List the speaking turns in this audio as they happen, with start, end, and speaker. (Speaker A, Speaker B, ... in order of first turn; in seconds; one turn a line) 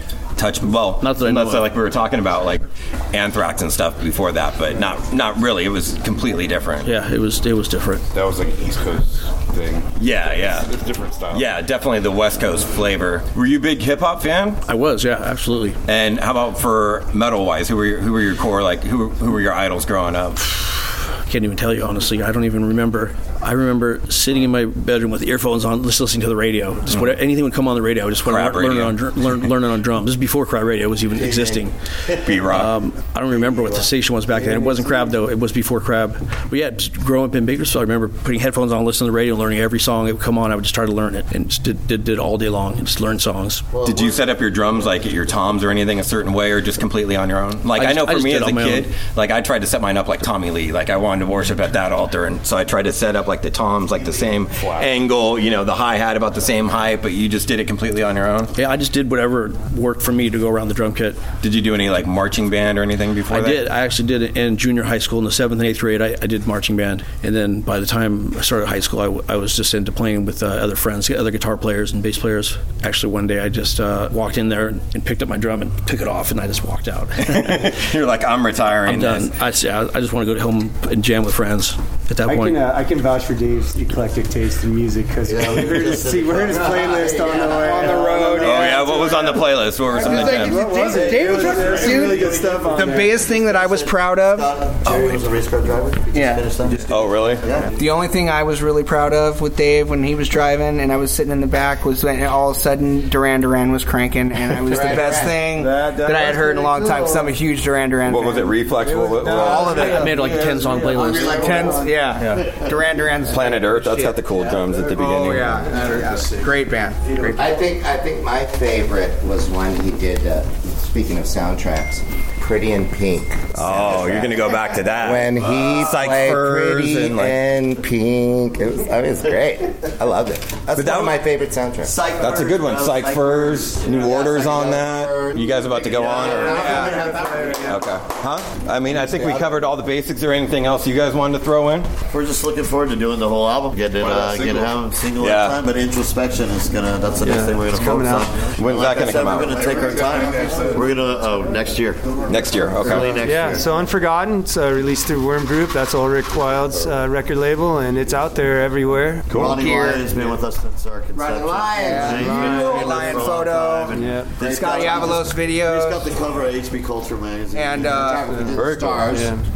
Speaker A: 0.4-6.9
Speaker B: 1.0-1.7
Speaker B: 6.8-8.0
Speaker C: 8.1-11.5
Speaker A: 10.0-10.7
Speaker A: 11.3-14.6
Speaker B: 14.7-15.8
Speaker A: 15.9-20.9
Speaker B: 21.0-31.7
Speaker A: 26.9-27.2
Speaker A: 28.2-29.0
Speaker D: 31.2-32.4
Speaker A: 32.2-32.7
Speaker B: 32.4-43.7
Speaker D: 33.3-35.2
Speaker D: 43.7-44.3
Speaker A: 43.8-58.5
Speaker B: 47.8-48.9
Speaker B: 58.5-61.3
Speaker A: 61.4-63.6
Speaker B: 63.3-77.7
Speaker A: 77.2-79.4
Speaker B: 78.9-82.7
Speaker E: 82.3-89.3
Speaker F: 85.2-85.6
Speaker D: 85.2-87.9
Speaker F: 86.7-89.3
Speaker A: 88.4-90.6
Speaker F: 89.9-95.2
Speaker E: 90.0-93.1
Speaker D: 91.9-97.7
Speaker F: 96.1-96.5
Speaker A: 96.9-97.5
Speaker F: 97.7-108.5
Speaker G: 104.6-105.4
Speaker E: 105.6-107.3
Speaker A: 108.1-110.1
Speaker E: 108.8-111.0
Speaker F: 109.1-114.2
Speaker B: 109.5-112.5
Speaker G: 110.9-111.8
Speaker E: 111.6-112.0
Speaker A: 113.3-115.8
Speaker F: 115.0-117.5
Speaker G: 117.4-132.0
Speaker A: 123.6-127.4
Speaker D: 125.4-125.7
Speaker A: 130.8-131.2
Speaker D: 131.8-134.6
Speaker A: 132.2-136.7
Speaker G: 133.8-137.8
Speaker D: 135.9-137.1
Speaker F: 136.7-137.0
Speaker E: 137.1-137.6
Speaker A: 137.6-141.9
Speaker D: 139.2-139.4
Speaker D: 142.1-152.2
Speaker C: 144.0-144.7
Speaker A: 145.2-145.6
Speaker E: 147.2-148.3
Speaker A: 148.5-149.7
Speaker C: 148.8-150.9
Speaker A: 152.3-153.2
Speaker D: 152.8-153.9
Speaker E: 153.1-159.6
Speaker F: 153.3-153.5
Speaker F: 159.2-160.1
Speaker D: 159.3-168.0
Speaker E: 160.1-160.4
Speaker F: 161.1-166.2
Speaker G: 161.3-162.4
Speaker E: 162.2-162.8
Speaker E: 163.9-164.3
Speaker F: 167.5-168.6
Speaker G: 167.9-169.3
Speaker C: 168.5-168.9
Speaker E: 169.1-169.4